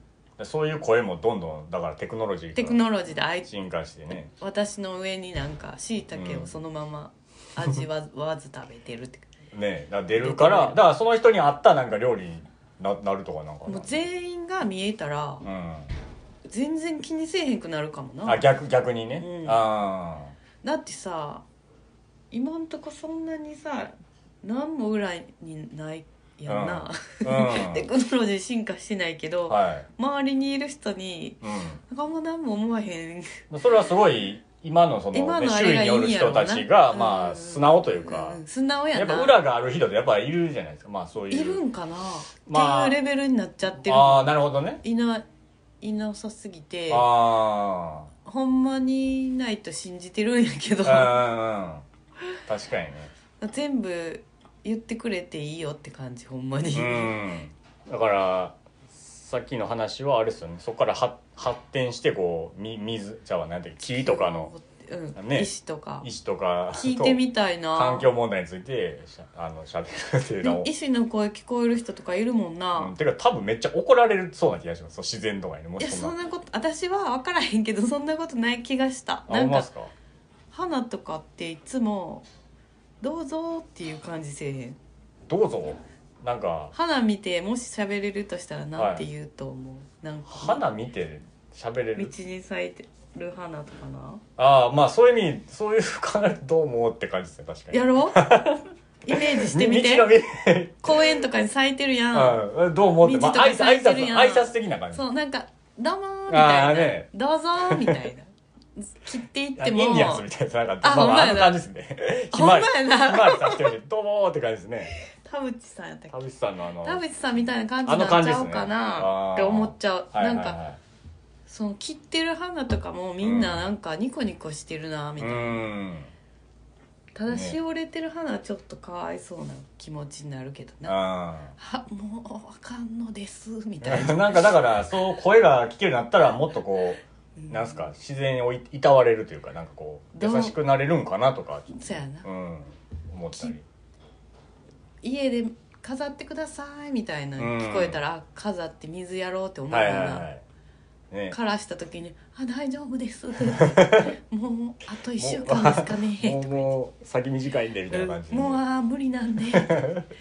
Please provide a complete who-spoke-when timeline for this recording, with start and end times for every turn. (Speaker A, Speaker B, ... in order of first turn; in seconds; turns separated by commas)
Speaker A: 0.4-2.8, Speaker B: 2.5-3.5, Speaker A: 3.5-4.3, Speaker B: 4.3-9.3, Speaker A: 6.1-6.5, Speaker A: 9.5-14.1, Speaker B: 10.2-10.8, Speaker B: 13.7-15.4, Speaker A: 15.4-15.9, Speaker B: 16.5-18.5, Speaker A: 18.2-20.3, Speaker B: 19.2-19.6, Speaker B: 20.6-21.4, Speaker B: 22.3-33.4, Speaker A: 26.5-27.9, Speaker A: 29.5-29.9, Speaker A: 31.4-31.8, Speaker A: 33.5-38.4, Speaker B: 35.1-39.4, Speaker A: 38.9-41.6, Speaker B: 41.3-45.2, Speaker A: 42.5-43.0, Speaker A: 43.8-44.8, Speaker B: 45.8-47.1, Speaker A: 46.9-48.1, Speaker B: 48.2-51.2, Speaker A: 50.8-51.8, Speaker A: 52.5-53.1, Speaker B: 53.4-57.1, Speaker A: 56.7-64.5, Speaker B: 63.8-66.1, Speaker A: 65.2-65.5, Speaker A: 66.0-67.2, Speaker B: 66.7-68.1, Speaker A: 67.7-70.7, Speaker B: 70.4-72.9, Speaker A: 72.8-76.1, Speaker B: 75.8-79.7, Speaker A: 79.3-79.9, Speaker B: 80.5-82.2, Speaker B: 83.0-84.8, Speaker A: 85.3-86.7, Speaker B: 86.7-90.6, Speaker A: 88.8-89.0, Speaker A: 90.3-92.1, Speaker B: 92.0-94.2, Speaker A: 94.4-101.0, Speaker B: 97.7-98.3, Speaker B: 99.0-100.1, Speaker B: 100.8-102.4, Speaker A: 102.1-105.0, Speaker B: 103.0-110.2, Speaker A: 106.3-107.1, Speaker A: 107.7-108.0, Speaker A: 109.6-114.9, Speaker B: 110.8-111.6, Speaker B: 112.3-113.8, Speaker B: 115.0-116.2, Speaker A: 116.1-117.0, Speaker B: 116.8-120.6, Speaker A: 117.8-120.8, Speaker B: 121.5-125.7, Speaker A: 123.2-123.7, Speaker A: 125.2-126.1, Speaker B: 127.1-131.0, Speaker A: 127.3-127.6, Speaker A: 130.8-131.5, Speaker B: 131.6-134.6, Speaker A: 133.8-143.6, Speaker B: 137.4-137.9, Speaker B: 140.1-140.6, Speaker B: 141.7-142.3, Speaker B: 145.0-150.3, Speaker A: 147.4-148.0, Speaker A: 149.7-150.4, Speaker A: 151.1-151.3, Speaker B: 151.3-156.7, Speaker A: 153.5-154.1, Speaker A: 155.2-158.6, Speaker B: 157.9-159.9, Speaker A: 159.5-160.1